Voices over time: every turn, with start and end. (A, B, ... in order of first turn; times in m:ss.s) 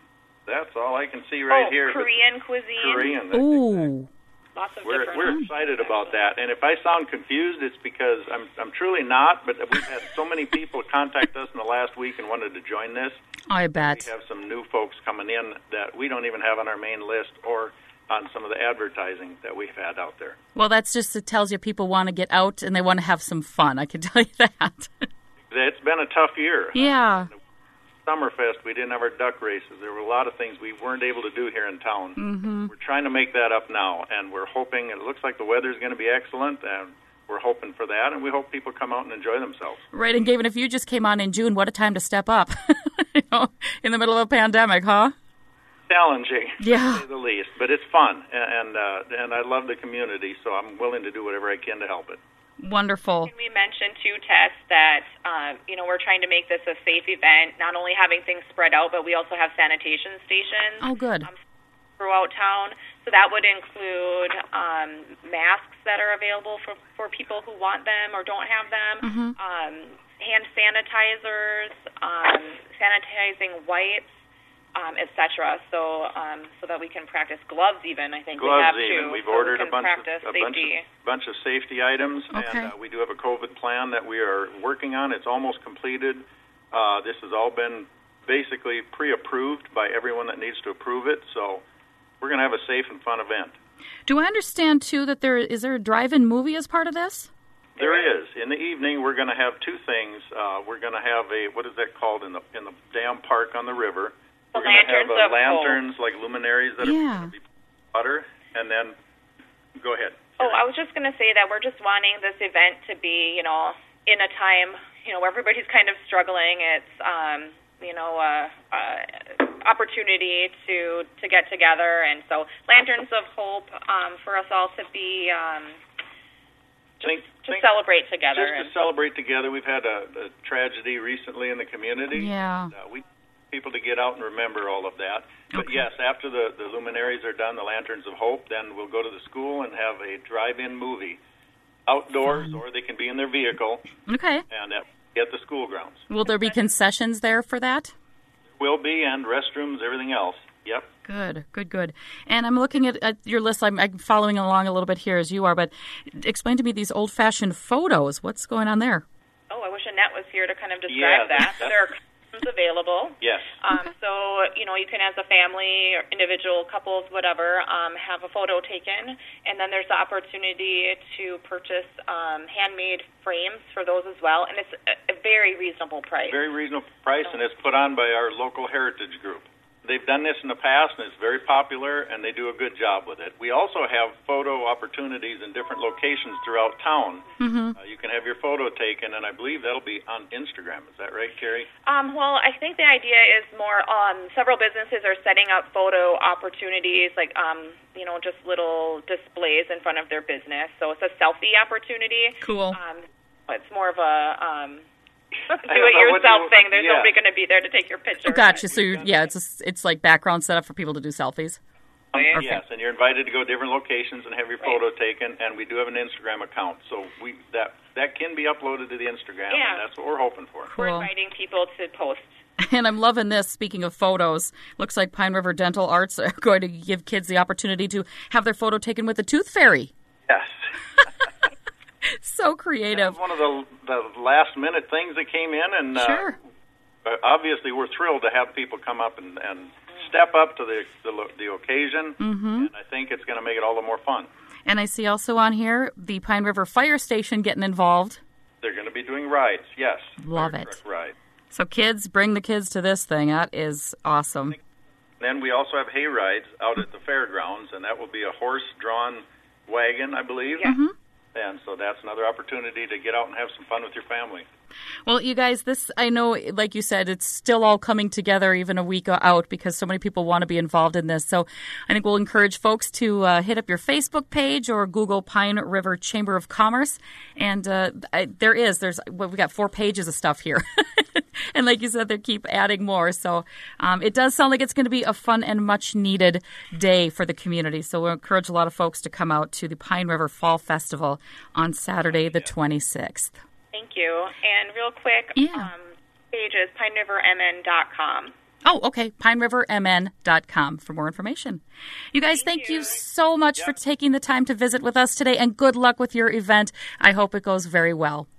0:00.5-0:02.2 A
0:01.5-0:03.2 B
0:02.8-0:03.9 A
0:03.3-0:04.1 C
0:04.5-0:06.2 B
0:04.8-0:13.2 A
0:13.5-0:14.1 C
0:13.8-0:20.4 A
0:20.5-0:25.1 C
0:25.5-0:27.3 A
0:26.7-0:27.3 C
0:28.0-0:39.8 A
0:32.2-0:32.7 C
0:39.9-0:45.1 C
0:45.9-0:52.2 A
0:46.6-0:47.0 C
0:52.6-0:53.3 C
0:53.2-1:01.3 B
1:00.8-1:01.3 C
1:02.0-1:14.1 B
1:09.0-1:09.3 C
1:14.7-1:20.8 B
1:18.4-1:31.6 A
1:22.3-1:22.7 C
1:32.2-1:33.5 A
1:34.1-1:37.3 C
1:37.8-1:38.1 B
1:37.8-1:48.9 A
1:44.5-1:45.8 B
1:46.8-1:47.3 C
1:49.8-1:50.6 A
1:50.4-2:05.8 B
2:07.0-2:08.7 B
2:07.0-2:07.6 A
2:08.3-2:21.2 A
2:12.1-2:12.7 C
2:15.5-2:15.8 C
2:21.9-2:23.9 A
2:22.3-2:22.6 C
2:24.0-2:24.4 C
2:24.5-2:26.0 A
2:26.1-2:27.9 C
2:28.6-2:30.9 A
2:31.0-2:39.0 C
2:39.5-2:56.4 B
2:40.9-2:41.7 A
2:43.2-2:43.6 A
2:56.3-3:11.7 A
3:07.4-3:07.8 C
3:11.8-3:24.8 B
3:22.4-3:22.8 C
3:25.5-3:28.7 B
3:25.6-3:27.1 A
3:28.2-3:31.6 C
3:28.6-3:29.2 A
3:32.1-3:32.4 B
3:32.1-3:40.7 A
3:32.3-3:32.6 C
3:39.5-3:39.8 B
3:40.7-3:41.1 C
3:40.8-3:42.3 B
3:42.6-3:49.9 C
3:50.3-3:50.6 A
3:52.1-3:53.2 C
3:52.9-3:56.4 A
3:55.9-3:56.4 C
3:57.0-4:04.3 A
4:02.2-4:02.7 C
4:04.6-4:08.2 C
4:08.6-4:11.1 A
4:10.2-4:10.8 C
4:11.5-4:14.6 C
4:15.2-4:20.7 A
4:20.6-4:20.9 C
4:21.3-4:24.4 A
4:25.0-4:53.4 C
4:52.0-4:52.5 A
4:53.7-4:58.3 B
4:55.4-4:55.7 C
4:58.6-5:01.6 C
5:02.1-5:08.3 C
5:02.4-5:03.0 B